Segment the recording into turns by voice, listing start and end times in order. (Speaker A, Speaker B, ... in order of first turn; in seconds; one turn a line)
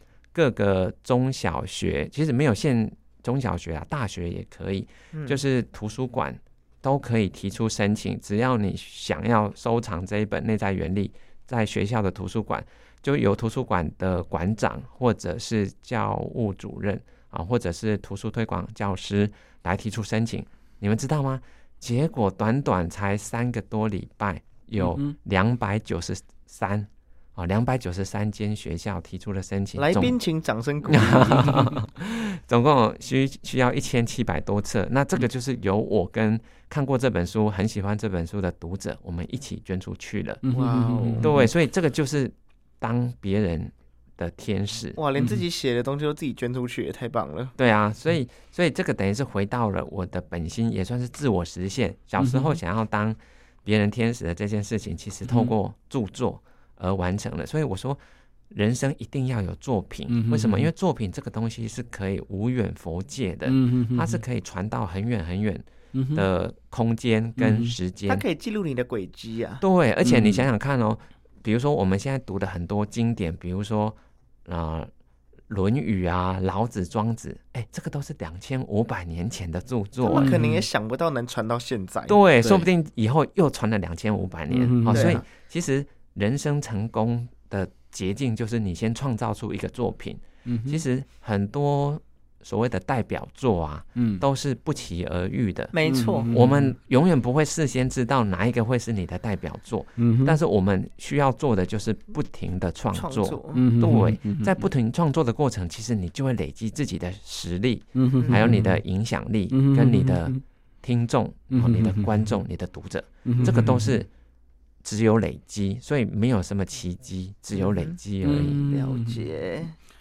Speaker A: 0.3-30.2
Speaker B: 5.1-5.4
Speaker C: 24.8-25.1
Speaker B: 29.8-31.7
Speaker A: 30.9-40.4
Speaker C: 40.4-41.5
Speaker B: 40.5-41.3
Speaker A: 41.2-45.0
Speaker B: 45.0-47.5
Speaker A: 47.6-58.0
Speaker C: 52.2-52.6
Speaker C: 55.2-55.5
Speaker A: 58.5-68.2
Speaker C: 60.1-60.7
Speaker C: 63.5-64.2
Speaker C: 65.9-66.2
Speaker C: 67.4-67.8
Speaker B: 68.1-69.6
Speaker A: 69.6-74.9
Speaker C: 70.0-70.5
Speaker A: 75.5-80.3
Speaker B: 80.0-82.6
Speaker C: 80.1-80.6
Speaker A: 82.1-95.7
Speaker C: 84.5-85.2
Speaker B: 84.9-85.2
Speaker C: 90.5-90.8
Speaker C: 94.0-94.2
Speaker B: 95.7-96.3
Speaker C: 95.8-96.7
Speaker A: 96.3-114.1
Speaker C: 100.0-100.4
Speaker B: 102.9-103.6
Speaker C: 103.5-104.6
Speaker C: 108.0-108.8
Speaker C: 109.5-110.4
Speaker C: 111.5-112.2
Speaker C: 113.2-114.0
Speaker A: 114.8-118.6
Speaker B: 117.5-118.0
Speaker C: 118.2-119.3
Speaker B: 118.6-119.7